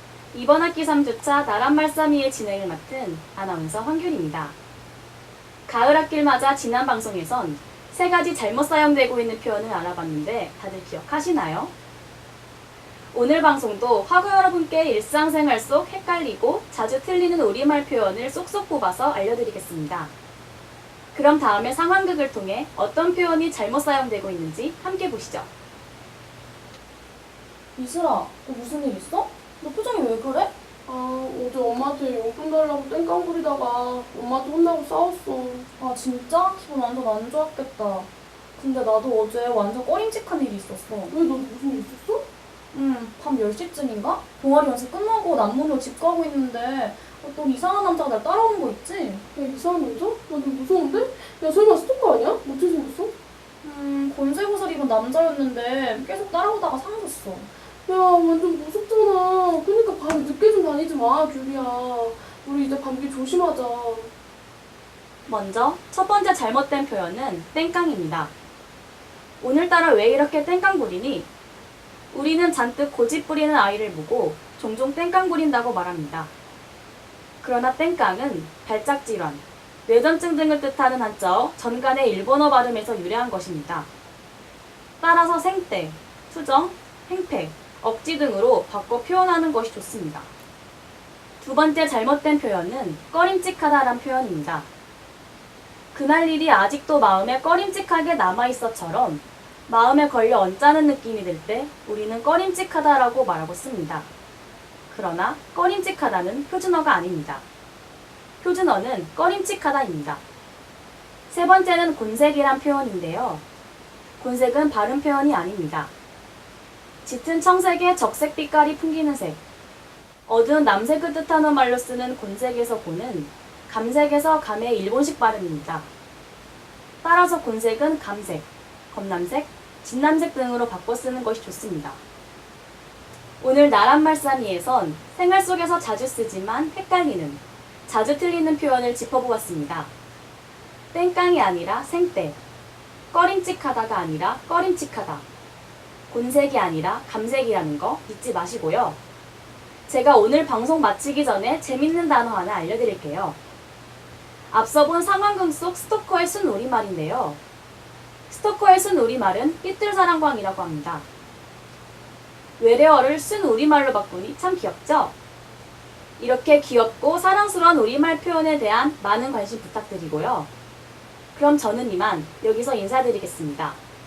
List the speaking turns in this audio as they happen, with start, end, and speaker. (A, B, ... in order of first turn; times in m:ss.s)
0:00.3-0:04.6 A
0:05.7-0:11.7 A
0:13.1-0:20.1 A
0:21.1-0:25.5 A
0:27.8-0:30.5 B
0:30.8-0:35.7 C
0:35.8-0:41.1 B
0:41.1-0:42.3 C
0:42.7-0:49.2 B
0:49.3-0:53.1 C
0:53.6-0:57.5 B
0:57.8-1:04.1 C
1:05.3-1:08.3 A
1:09.4-1:11.3 A
1:12.1-1:16.3 A
1:17.4-1:23.9 A
1:25.0-1:30.3 A
1:31.4-1:34.7 A
1:35.9-1:44.1 A
1:44.9-1:47.4 A
1:48.4-1:50.2 A
1:51.3-1:53.4 A
1:54.2-1:55.9 A
1:57.0-1:59.4 A
2:00.2-2:05.9 A
2:07.0-2:12.0 A
2:13.4-2:19.9 A
2:20.9-2:22.4 A
2:23.1-2:25.2 A
2:26.1-2:29.0 A
2:29.9-2:33.4 A
2:34.5-2:37.4 A
2:38.3-2:41.0 A
2:42.6-2:45.1 A
2:46.2-2:50.5 A
2:51.3-2:53.8 A